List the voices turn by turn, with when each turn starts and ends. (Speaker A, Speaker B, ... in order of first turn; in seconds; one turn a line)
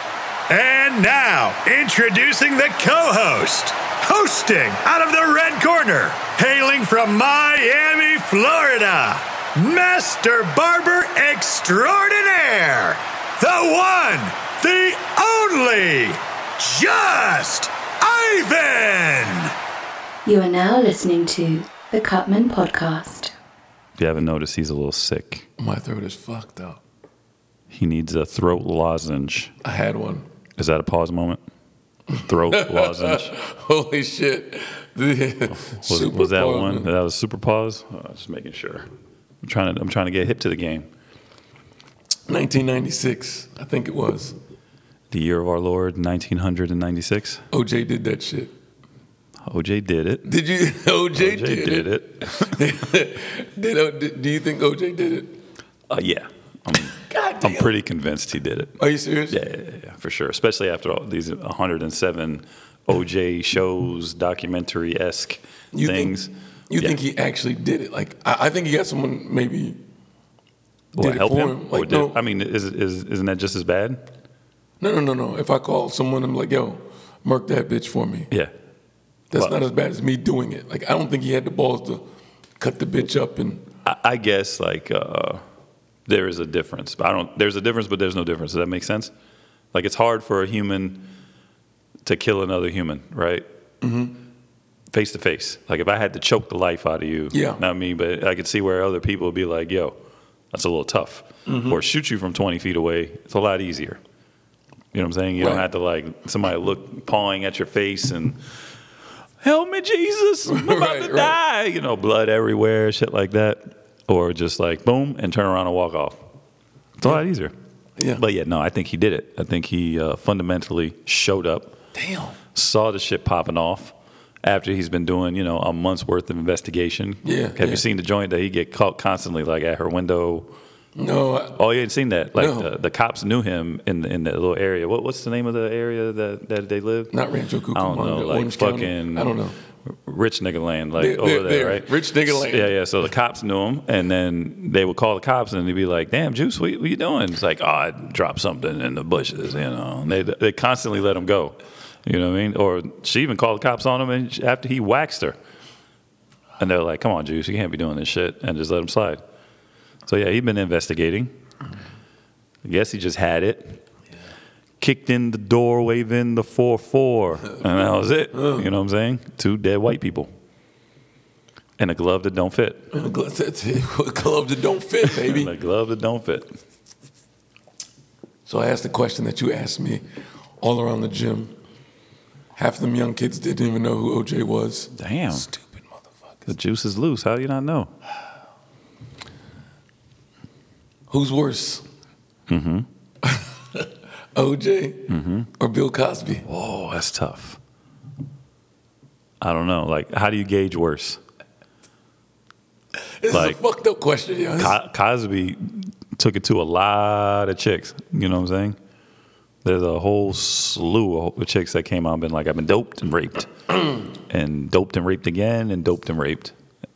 Speaker A: 0.5-19.5
Speaker B: 20.2-23.3
Speaker C: 24.0-25.4
Speaker D: 25.6-26.8
Speaker C: 27.7-29.5
Speaker D: 29.6-30.3
Speaker C: 30.6-31.4
Speaker D: 32.1-36.9
Speaker C: 32.2-33.4
Speaker C: 35.7-38.9
Speaker C: 39.4-40.9
Speaker D: 42.3-44.4
Speaker C: 45.1-47.4
Speaker D: 47.5-48.5
Speaker C: 49.5-50.2
Speaker D: 50.2-55.4
Speaker C: 51.1-52.6
Speaker C: 55.9-58.8
Speaker D: 56.9-57.7
Speaker D: 58.8-59.4
Speaker C: 59.3-66.9
Speaker D: 65.7-66.2
Speaker D: 66.7-69.8
Speaker C: 70.9-74.0
Speaker D: 70.9-72.2
Speaker D: 74.8-78.3
Speaker D: 79.3-82.1
Speaker D: 82.6-83.7
Speaker C: 83.8-85.4
Speaker C: 86.1-89.1
Speaker C: 89.7-91.1
Speaker C: 92.0-93.4
Speaker D: 93.8-94.2
Speaker C: 94.9-100.0
Speaker D: 97.3-97.6
Speaker C: 100.5-104.0
Speaker D: 101.5-101.8
Speaker C: 104.9-108.4
Speaker D: 105.4-105.7
Speaker C: 109.4-116.2
Speaker D: 110.5-111.4
Speaker C: 117.0-117.5
Speaker D: 118.0-118.2
Speaker C: 118.2-121.8
Speaker D: 121.9-122.4
Speaker C: 122.5-130.5
Speaker D: 127.2-127.8
Speaker D: 130.9-131.6
Speaker C: 131.6-137.1
Speaker D: 132.3-132.7
Speaker D: 137.1-139.5
Speaker C: 137.7-155.4
Speaker D: 141.0-142.8
Speaker C: 156.6-159.2
Speaker C: 160.1-161.3
Speaker C: 162.6-163.8
Speaker C: 164.8-170.3
Speaker D: 168.3-168.7
Speaker C: 171.8-172.9
Speaker D: 172.9-175.5
Speaker C: 175.0-176.5
Speaker D: 178.4-180.0
Speaker D: 180.6-181.5
Speaker D: 182.5-184.9
Speaker C: 184.9-185.5
Speaker C: 186.5-187.9
Speaker D: 191.1-191.8
Speaker C: 192.5-192.8
Speaker D: 193.2-196.4
Speaker C: 195.1-195.5
Speaker C: 196.4-197.6
Speaker C: 199.4-201.2
Speaker D: 203.2-204.8
Speaker C: 203.3-203.6
Speaker C: 204.6-208.8
Speaker C: 209.6-216.5